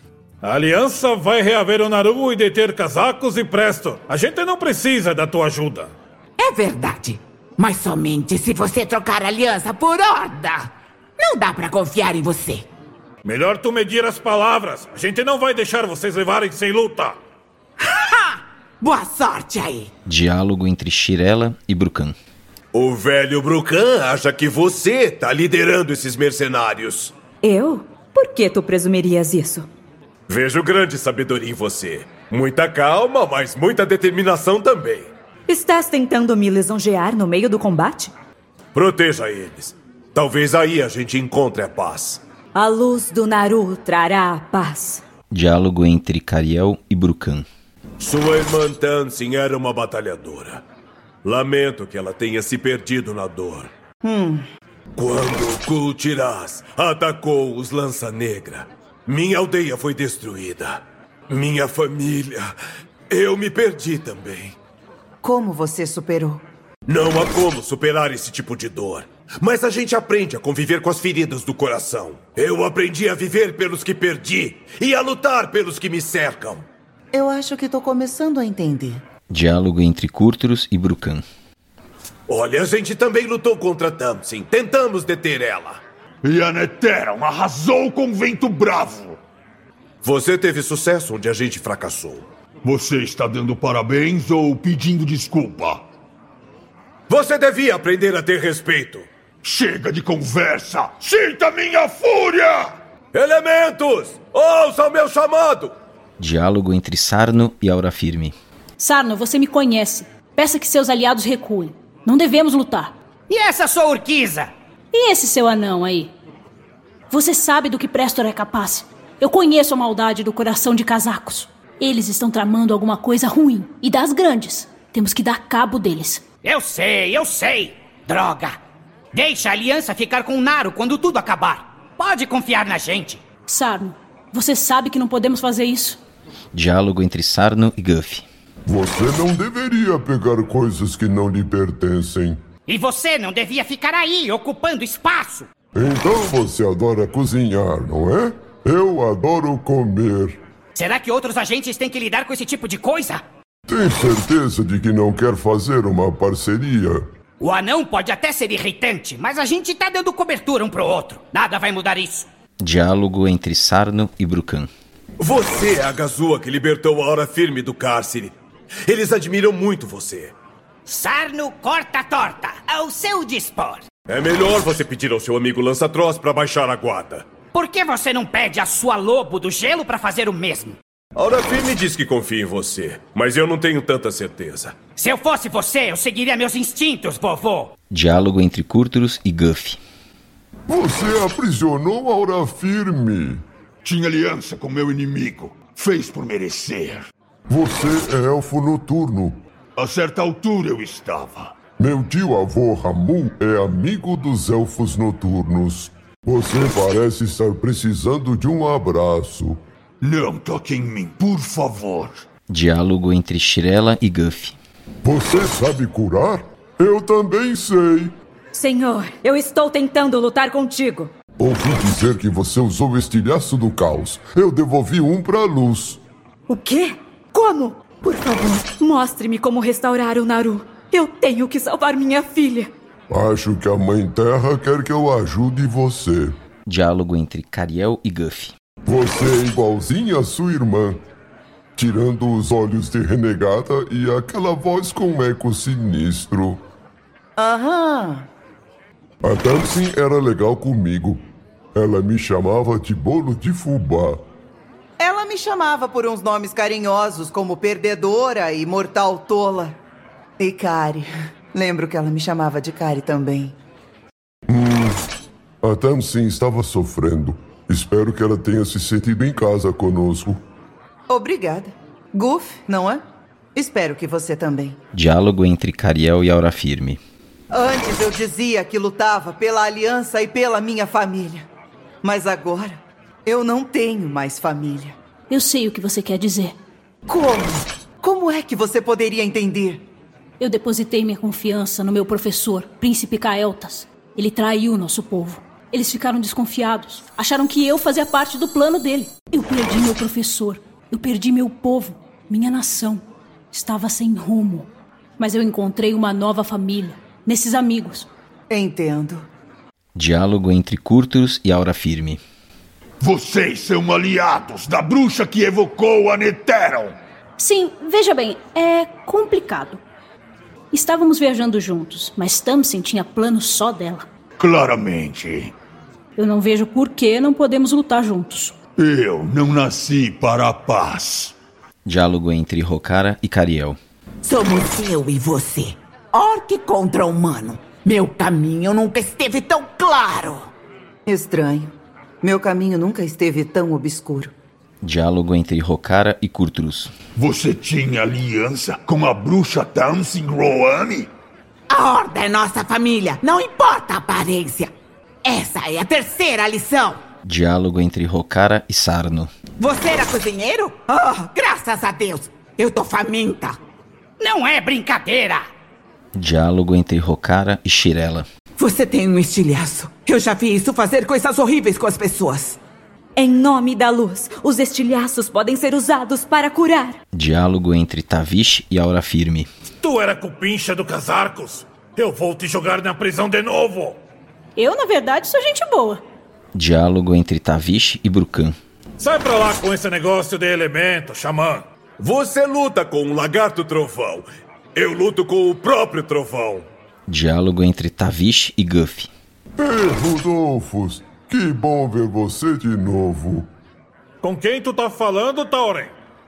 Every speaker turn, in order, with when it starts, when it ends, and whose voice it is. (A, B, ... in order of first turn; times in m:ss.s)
0:00.4-0:05.9 A
0:06.4-0:10.6 B
0:11.2-0:12.6 B
0:13.2-0:17.2 A
0:18.1-0:19.9 B
0:20.1-0:22.1 C
0:22.7-0:27.1 D
0:27.4-0:29.7 E
0:30.3-0:35.1 D
0:35.5-0:38.1 E
0:38.7-0:42.2 D
0:42.6-0:45.0 E
0:45.3-0:47.4 C
0:48.0-0:50.6 D
0:51.2-0:53.7 D
0:54.0-0:54.4 F
0:55.0-1:02.5 D
1:03.1-1:04.6 D
1:05.2-1:06.4 F
1:06.9-1:16.6 D
1:17.1-1:19.0 F
1:19.3-1:21.2 C
1:22.3-1:25.8 D
1:26.2-1:29.2 G
1:30.0-1:32.3 D
1:32.6-1:35.8 G
1:37.1-1:39.1 D
1:39.4-1:42.8 G
1:43.1-1:45.8 D
1:46.2-1:48.3 C
1:48.8-1:52.9 H
1:53.3-1:54.5 I
1:54.9-1:56.1 H
1:57.1-2:06.3 H
2:06.4-2:08.6 I
2:09.1-2:13.2 I
2:13.5-2:16.0 H
2:16.6-2:18.3 C
2:18.7-2:22.4 J
2:22.7-2:25.5 I
2:25.8-2:30.4 J
2:30.8-2:33.2 I
2:33.7-2:37.0 J
2:37.4-2:42.3 I
2:42.6-2:44.7 C
2:45.2-2:48.3 D
2:48.9-2:50.3 D
2:50.9-2:53.8 I
2:54.1-2:57.3 D
2:57.5-3:00.8 I
3:01.2-3:04.8 D
3:05.0-3:07.7 I
3:07.9-3:09.8 C
3:10.7-3:13.4 J
3:13.8-3:17.1 G
3:17.5-3:19.4 J
3:19.8-3:21.5 G
3:21.8-3:29.6 J
3:30.0-3:32.2 G
3:32.5-3:34.5 C
3:35.0-3:38.1 J
3:38.5-3:41.1 E
3:41.4-3:46.0 J
3:46.5-3:52.7 E
3:53.1-3:56.3 J
3:56.7-3:58.5 C
3:58.8-4:01.0 J
4:01.8-4:06.6 J
4:07.4-4:08.3 F
4:09.2-4:11.2 J
4:11.8-4:14.2 J
4:15.0-4:19.8 F
4:20.4-4:23.6 F
4:24.5-4:25.0 J
4:25.6-4:30.4 J
4:31.1-4:33.0 F
4:33.6-4:34.8 F
4:35.0-4:37.0 C
4:37.5-4:41.5 F
4:42.0-4:45.0 F
4:45.3-4:46.6 H
4:47.1-4:49.8 F
4:50.4-5:04.7 H
5:05.2-5:08.1 H
5:08.5-5:09.2 F
5:10.0-5:12.2 C
5:13.0-5:17.0 G
5:17.4-5:19.8 H
5:20.7-5:24.0 H
5:24.4-5:25.5 G
5:26.2-5:28.6 H
5:28.8-5:31.4 G
5:31.9-5:33.8 C
5:34.2-5:40.5 B
5:41.1-5:44.3 F
5:44.8-5:46.9 C
5:47.2-5:51.1 G
5:51.7-5:54.7 B
5:55.3-5:57.0 B
5:57.3-5:59.3 C
5:59.6-6:03.5 B
6:04.2-6:05.4 I
6:06.2-6:08.3 C
6:08.6-6:12.6 B
6:13.2-6:17.0 E
6:17.2-6:19.5 C
6:19.8-6:24.0 A
6:24.6-6:26.0 H
6:26.6-6:28.5 C
6:29.0-6:31.7 A
6:32.0-6:36.6 D
6:37.1-6:39.1 C
6:39.6-6:43.5 J
6:44.2-6:45.9 A